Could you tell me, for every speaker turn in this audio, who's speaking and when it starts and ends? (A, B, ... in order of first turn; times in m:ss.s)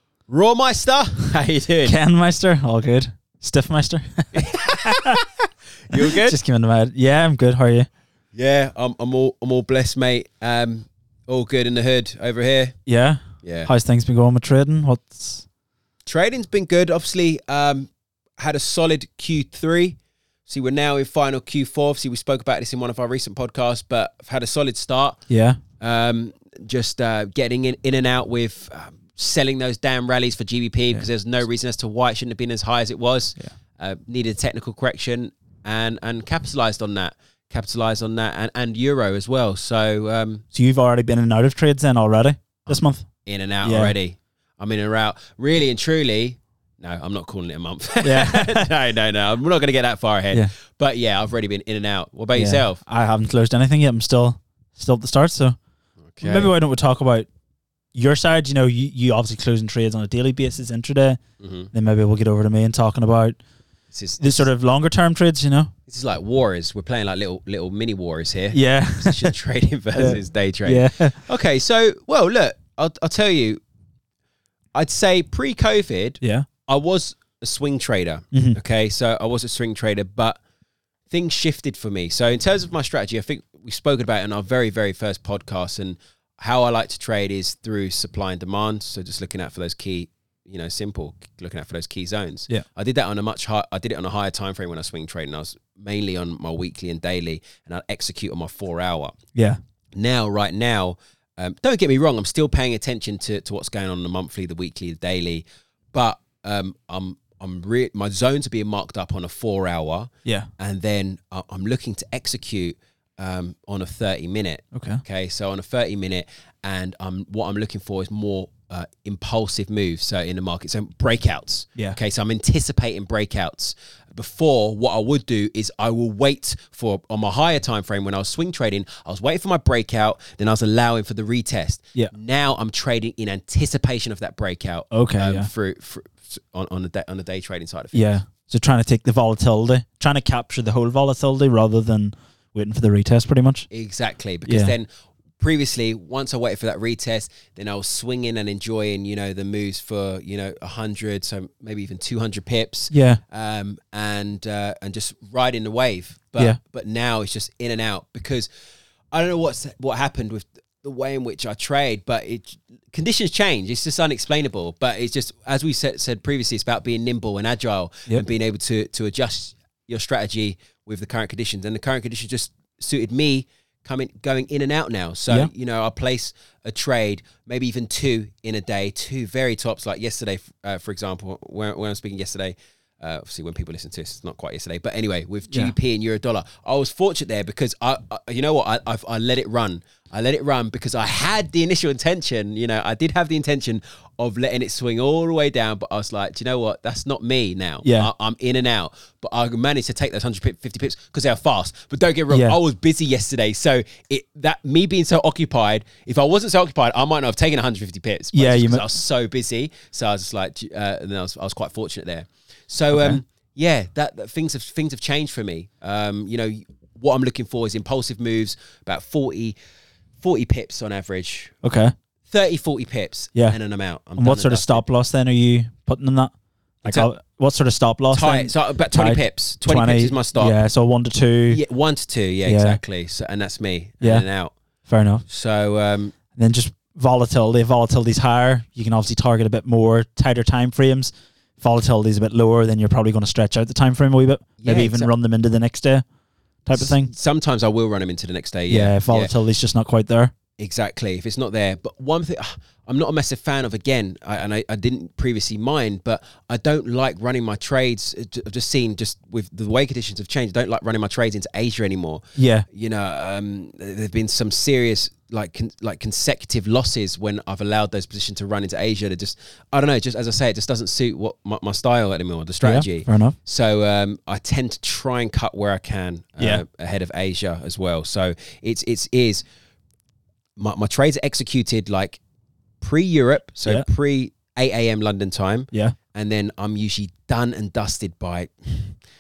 0:00.3-0:02.0 A
0:01.8-0:05.2 B
0:04.4-0:05.2 A
0:05.8-0:06.4 A
0:05.9-0:07.9 B
0:08.3-0:12.7 A
0:12.9-0:15.4 B
0:13.4-0:13.7 A
0:16.0-0:25.2 A
0:25.3-0:25.6 B
0:25.8-0:40.4 A
0:40.5-0:43.1 B
0:42.6-0:52.8 A
0:43.6-0:44.0 B
0:48.0-0:48.7 B
0:52.3-0:55.6 B
0:56.1-0:56.5 A
0:56.2-0:57.3 B
0:57.9-1:01.2 B
1:01.4-1:01.7 A
1:01.7-1:03.4 B
1:03.9-1:04.5 A
1:04.2-1:05.7 B
1:05.9-1:13.6 A
1:08.5-1:09.3 B
1:10.0-1:11.2 B
1:14.7-1:20.4 A
1:16.2-1:16.5 B
1:18.3-1:18.6 B
1:21.1-1:39.2 A
1:39.9-2:18.1 A
1:54.7-1:55.0 B
2:14.9-2:15.5 B
2:17.9-2:23.7 B
2:23.7-2:24.9 A
2:24.4-2:24.7 B
2:25.4-2:38.5 A
2:32.9-2:33.2 B
2:39.1-3:39.6 A
3:05.5-3:05.7 B
3:17.8-3:18.1 B
3:22.3-3:22.6 B
3:28.3-3:28.8 B
3:32.9-3:33.2 B
3:40.2-3:41.5 A
3:41.6-3:41.9 B
3:42.3-3:44.8 A
3:44.2-3:46.3 B
3:46.8-3:51.6 B
3:48.1-3:50.6 A
3:51.5-3:54.5 A
3:52.4-3:52.8 B
3:54.0-3:54.2 B
3:54.9-3:55.2 B
3:55.3-3:56.1 A
3:56.4-4:06.0 B
4:04.6-4:05.1 A
4:06.6-4:07.1 B
4:06.7-4:09.3 A
4:08.7-4:10.3 B
4:10.6-4:39.4 A
4:22.4-4:22.6 B
4:32.6-4:33.4 B
4:40.6-4:42.2 A
4:42.8-4:49.0 A